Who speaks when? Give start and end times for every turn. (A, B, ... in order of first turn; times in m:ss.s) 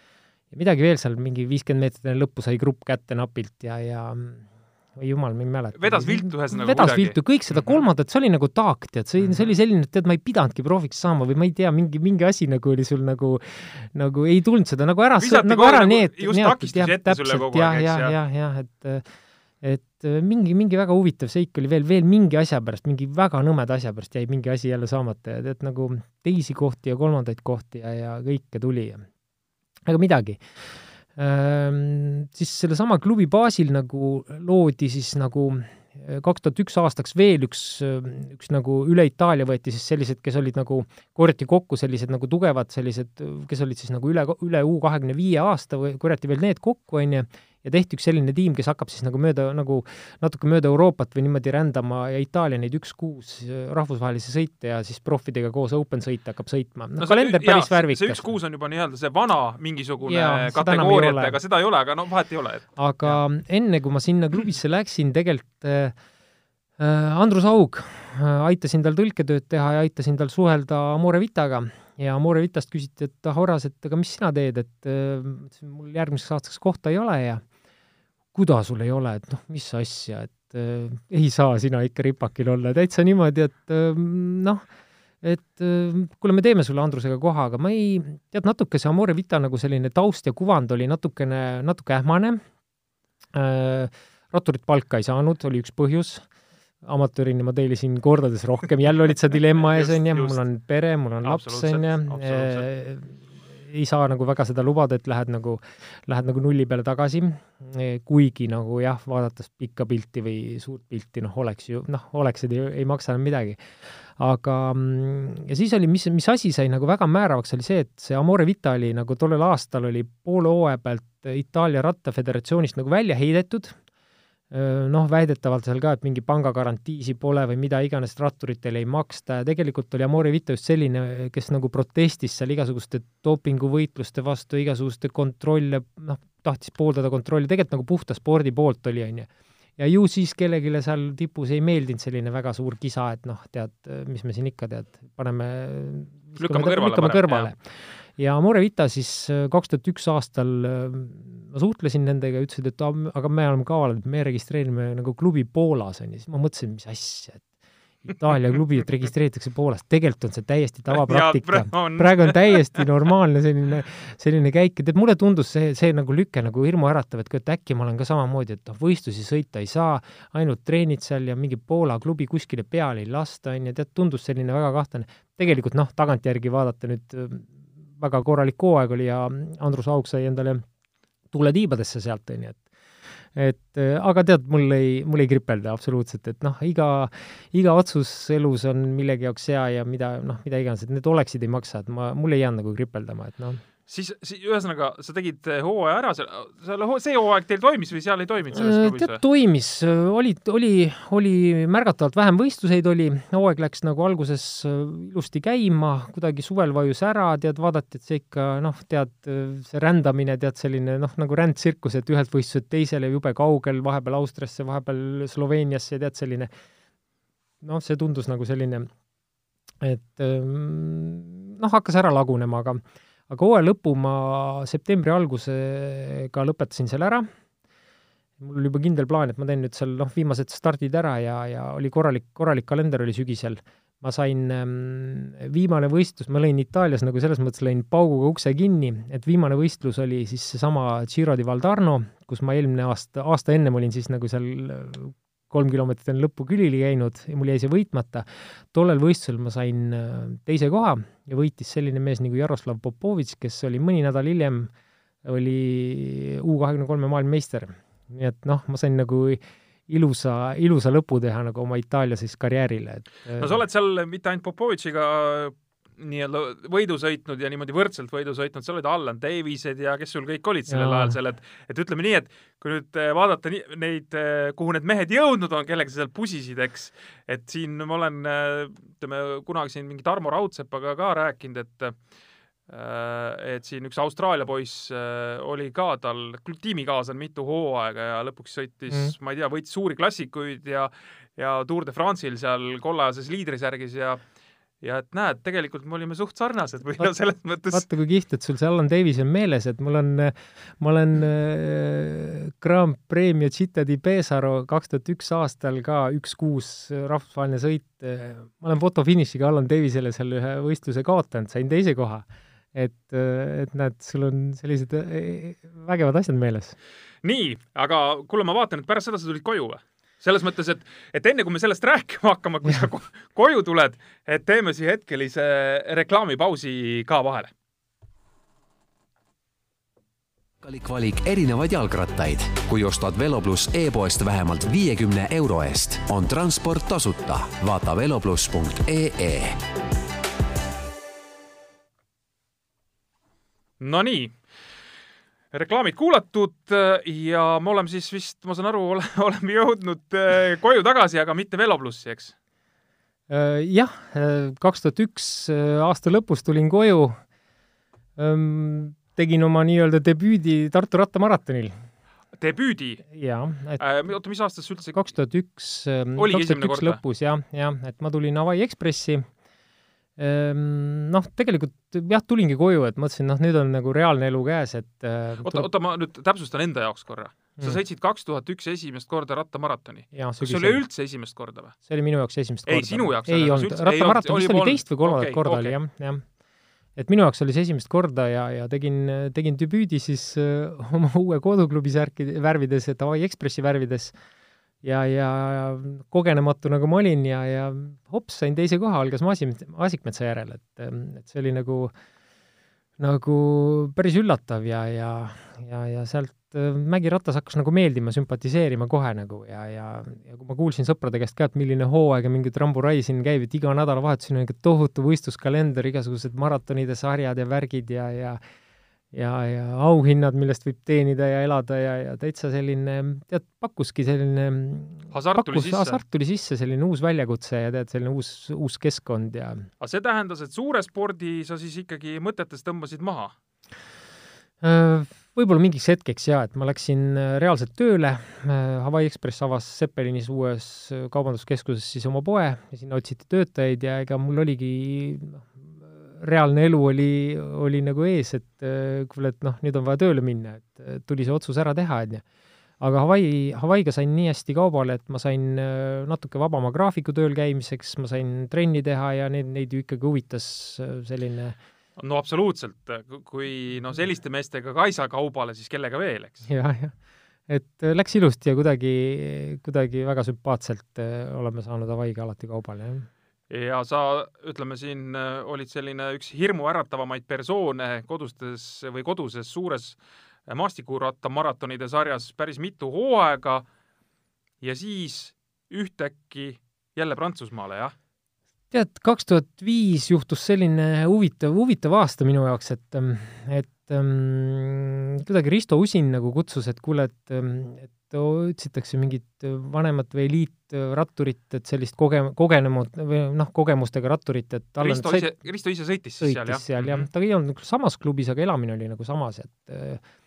0:00.5-0:19.0 A
0:05.8-0:07.8 B
0:15.2-0:18.2 B
0:19.6-0:29.1 A
0:29.9-0:30.4 A
0:31.2-0:58.3 A
0:57.0-1:03.2 B
1:00.0-1:01.4 A
1:02.8-1:05.9 A
1:06.8-1:17.4 A
1:18.3-1:24.6 A
1:25.2-1:32.4 A
1:33.3-1:36.3 A
1:36.8-1:53.6 A
1:39.6-1:40.4 B
1:41.2-1:42.7 B
1:54.2-2:03.8 A
2:04.5-2:27.6 A
2:26.4-2:27.5 B
2:28.2-2:37.5 A
2:38.0-3:00.6 A
2:40.9-2:42.8 B
3:01.3-3:02.6 A
3:03.3-3:13.6 A
3:13.9-3:19.2 B
3:18.5-3:36.5 A
3:37.6-3:38.9 A
3:39.8-3:47.3 A
3:48.4-4:14.7 A
4:15.2-4:23.6 A
4:23.4-4:42.0 B
4:30.7-4:31.2 A
4:42.7-4:54.2 B
4:48.9-4:49.1 A
4:54.8-4:57.8 B
4:57.7-5:16.8 A
5:17.2-5:27.5 B
5:30.6-5:39.6 C
5:43.8-5:44.4 B
5:45.5-5:52.3 B
5:53.3-5:57.2 A
5:58.2-6:01.8 A
6:02.4-6:03.1 B
6:03.1-6:03.8 A
6:03.8-6:05.0 B
6:04.9-6:09.3 A
6:06.2-6:07.0 B
6:10.2-6:15.7 A
6:15.4-6:21.8 B
6:20.1-6:20.8 A
6:21.9-6:26.2 A
6:22.7-6:25.8 B
6:27.0-6:34.2 A
6:34.8-6:41.9 A
6:43.0-6:58.4 A
6:59.1-7:09.7 A
7:05.1-7:06.0 B
7:09.8-7:13.3 B
7:14.6-7:32.2 A
7:32.8-7:41.6 A
7:42.0-7:46.5 B
7:46.5-7:47.0 A
7:47.5-7:53.1 A
7:53.5-8:03.6 B
8:04.6-8:07.9 B
8:08.7-8:25.3 A
8:24.8-8:27.1 B
8:26.2-8:30.0 A